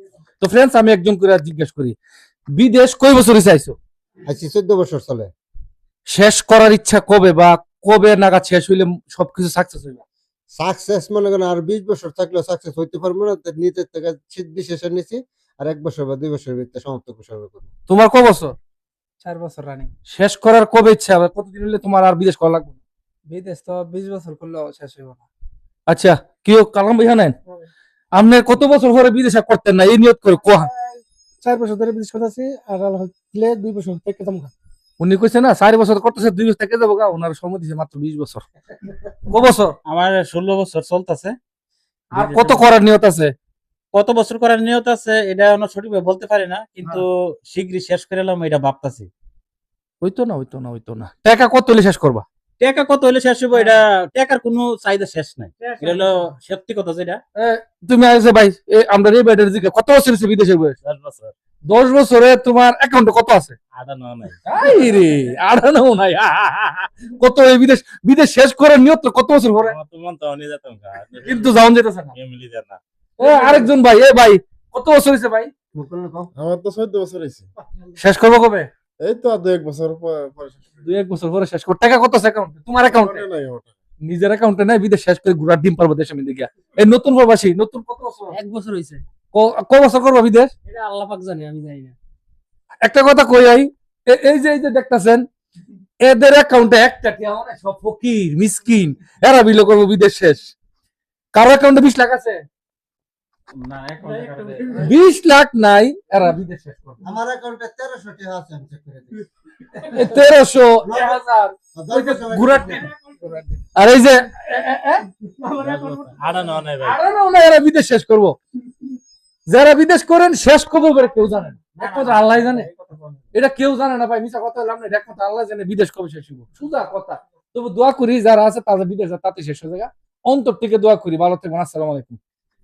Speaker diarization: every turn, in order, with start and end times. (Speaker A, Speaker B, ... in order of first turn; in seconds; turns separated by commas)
Speaker A: 0.4-1.9, Speaker A: 2.6-3.8, Speaker B: 4.2-5.3, Speaker A: 6.1-10.0, Speaker B: 10.6-17.7, Speaker A: 17.9-18.5, Speaker C: 19.2-19.9, Speaker A: 20.1-22.8, Speaker C: 23.3-25.2, Speaker A: 25.9-27.3, Speaker A: 28.1-30.7, Speaker C: 30.8-34.5, Speaker A: 35.0-38.5, Speaker A: 39.3-39.7, Speaker D: 39.9-41.3, Speaker D: 42.1-42.6, Speaker A: 42.1-43.3, Speaker D: 43.9-49.1, Speaker A: 50.0-52.2, Speaker D: 52.6-57.2, Speaker A: 57.4-60.8, Speaker D: 60.8-61.3, Speaker A: 61.7-63.5, Speaker D: 63.7-64.4, Speaker A: 64.4-69.7, Speaker D: 69.7-71.6, Speaker A: 71.2-72.1, Speaker D: 72.1-72.8, Speaker A: 73.2-75.5, Speaker B: 75.7-76.3, Speaker E: 76.3-77.5, Speaker A: 78.0-78.7, Speaker E: 79.0-80.8, Speaker A: 80.8-83.2, Speaker E: 82.8-83.7, Speaker A: 84.0-88.3, Speaker C: 88.3-89.0, Speaker A: 89.3-90.5, Speaker C: 90.7-91.9, Speaker A: 92.8-95.2, Speaker A: 96.0-100.5, Speaker A: 101.3-102.4, Speaker D: 103.6-104.9, Speaker A: 104.8-107.0, Speaker B: 107.0-109.3, Speaker A: 109.8-112.9, Speaker B: 110.8-111.2, Speaker B: 111.7-112.9, Speaker C: 113.0-113.6, Speaker A: 113.7-115.0, Speaker C: 115.4-116.0, Speaker D: 115.6-117.0, Speaker A: 116.8-118.4, Speaker A: 119.5-122.7, Speaker D: 121.8-122.6, Speaker A: 123.3-132.2